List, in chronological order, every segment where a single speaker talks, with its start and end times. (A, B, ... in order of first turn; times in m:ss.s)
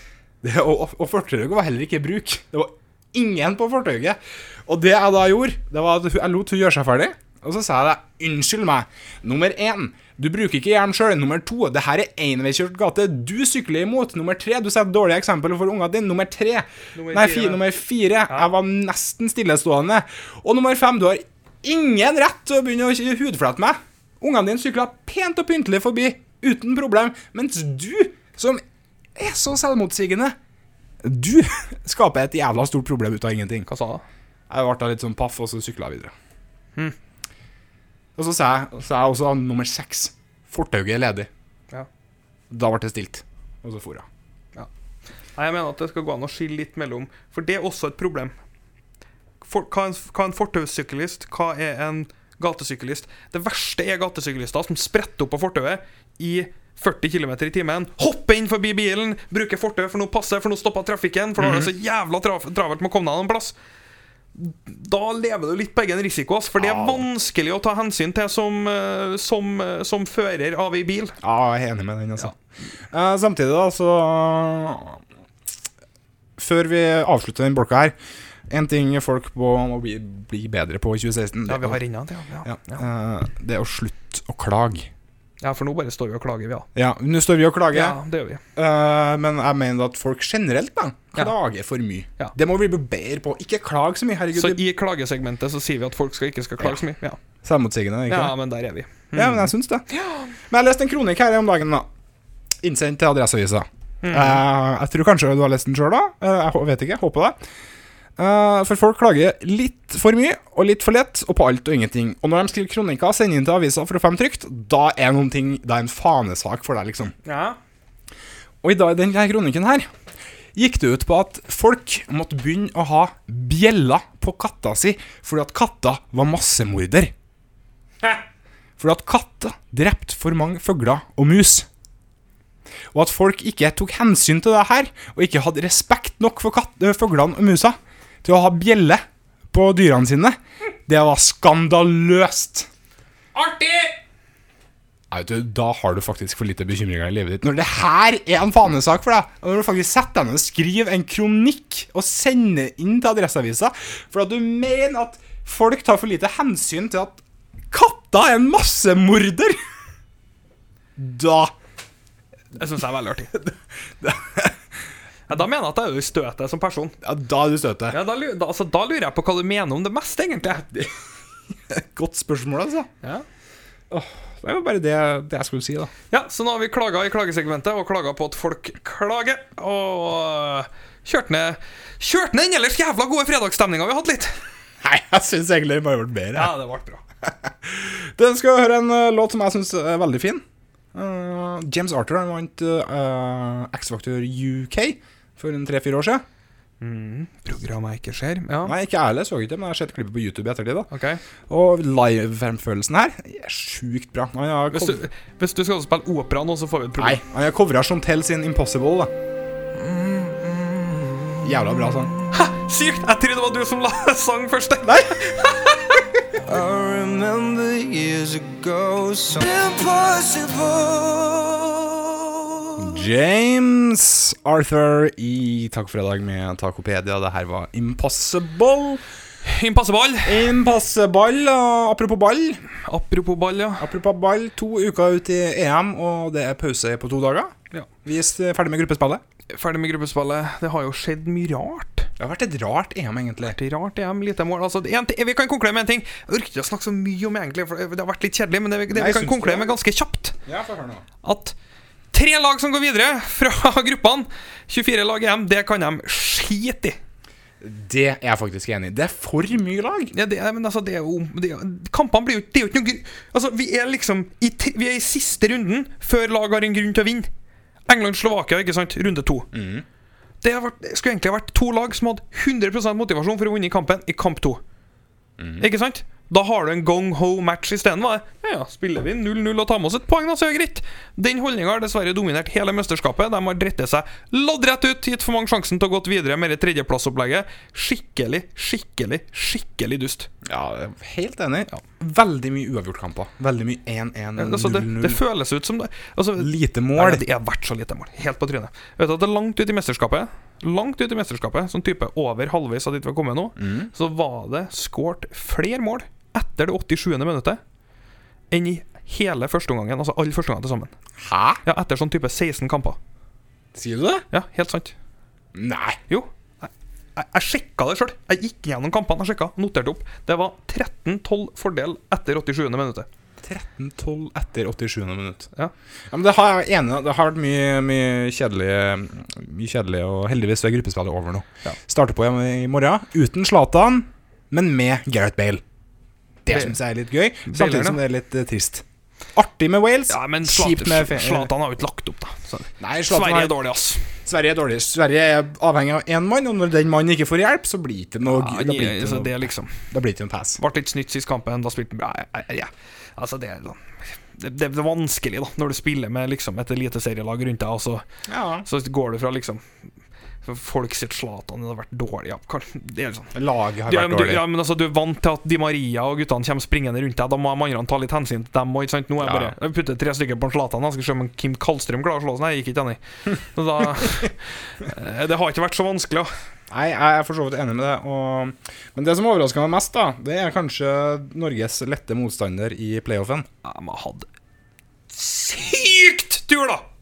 0:00.4-0:28.6 A
0:16.9-0:17.6 B
0:29.2-0:30.4 A
0:31.0-0:33.7 A
0:33.7-0:34.0 B
0:34.5-0:36.1 A
0:38.2-0:41.3 A
0:42.5-0:44.0 A
0:45.4-0:48.3 B
0:49.4-1:03.5 B
1:01.4-1:01.7 A
1:04.3-1:11.1 B
1:06.6-1:07.0 A
1:11.2-1:12.3 A
1:12.9-1:15.0 A
1:16.4-1:18.0 A
1:18.5-1:21.8 A
1:21.5-1:22.8 B
1:22.4-1:24.9 A
1:25.4-1:26.7 B
1:26.7-1:28.0 A
1:27.7-1:28.4 B
1:28.6-1:34.6 A
1:34.3-1:37.2 B
1:37.4-1:38.4 A
1:38.1-1:40.3 B
1:39.1-1:39.8 A
1:40.5-1:41.9 A
1:42.6-1:47.4 A
1:44.0-1:44.4 B
1:48.2-1:57.1 A
1:57.2-1:57.6 B
1:58.6-1:59.9 A
2:00.5-2:07.1 A
2:08.8-2:11.7 A
2:12.9-2:22.7 A
2:23.3-2:24.0 B
2:25.1-2:39.6 A
2:41.0-2:41.5 A
2:42.5-2:43.3 B
2:43.3-2:44.6 A
2:45.3-2:47.0 B
2:47.0-2:48.0 A
2:47.9-2:50.6 B
2:50.6-2:50.9 A
2:51.7-2:52.9 A
2:53.9-2:55.9 A
2:56.1-3:04.3 B
3:04.8-3:06.5 A
3:06.3-3:07.0 B
3:07.4-3:10.4 A
3:10.9-3:16.2 A
3:16.8-3:18.7 B
3:18.6-3:20.9 A
3:20.9-3:21.2 B
3:21.5-3:25.0 A
3:24.7-3:27.2 B
3:27.0-3:29.1 A
3:29.8-3:30.7 C
3:31.4-3:32.1 A
3:32.3-3:36.0 B
3:34.8-3:35.2 A
3:36.4-3:42.8 C
3:42.8-3:49.0 A
3:49.4-3:50.5 B
3:50.2-3:52.6 A
3:52.8-3:53.8 B
3:53.8-3:59.2 A
3:59.5-4:02.1 B
4:02.2-4:03.6 A
4:03.4-4:10.4 B
4:08.9-4:09.8 A
4:10.4-4:11.0 A
4:11.2-4:11.5 B
4:12.1-4:17.0 B
4:17.6-4:20.1 A
4:20.1-4:27.3 B
4:27.9-4:29.5 B
4:29.5-4:29.8 A
4:30.4-4:34.6 B
4:35.4-4:35.6 A
4:35.6-4:50.3 B
4:50.4-4:55.2 A
4:54.4-5:07.6 B
4:56.4-4:57.2 A
5:03.6-5:03.9 A
5:08.5-5:10.9 B
5:11.2-5:11.6 A
5:11.6-5:13.0 B
5:13.7-5:14.2 A
5:14.3-5:14.9 B
5:15.5-5:16.0 A
5:16.1-5:23.1 B
5:23.4-5:25.5 A
5:26.1-5:35.6 A
5:36.4-5:38.8 A
5:36.5-5:36.8 B
5:37.5-5:38.0 B
5:39.3-5:41.5 A
5:40.1-5:44.1 B
5:42.8-5:43.5 A
5:44.2-5:50.6 A
5:48.3-5:49.7 B
5:50.6-5:58.0 B
5:58.3-5:58.7 A
5:58.6-5:59.6 B
6:00.4-6:03.3 B
6:03.3-6:04.4 A
6:03.9-6:16.3 B
6:09.2-6:09.5 A
6:16.7-6:23.5 A
6:23.6-6:24.3 B
6:25.1-6:26.8 B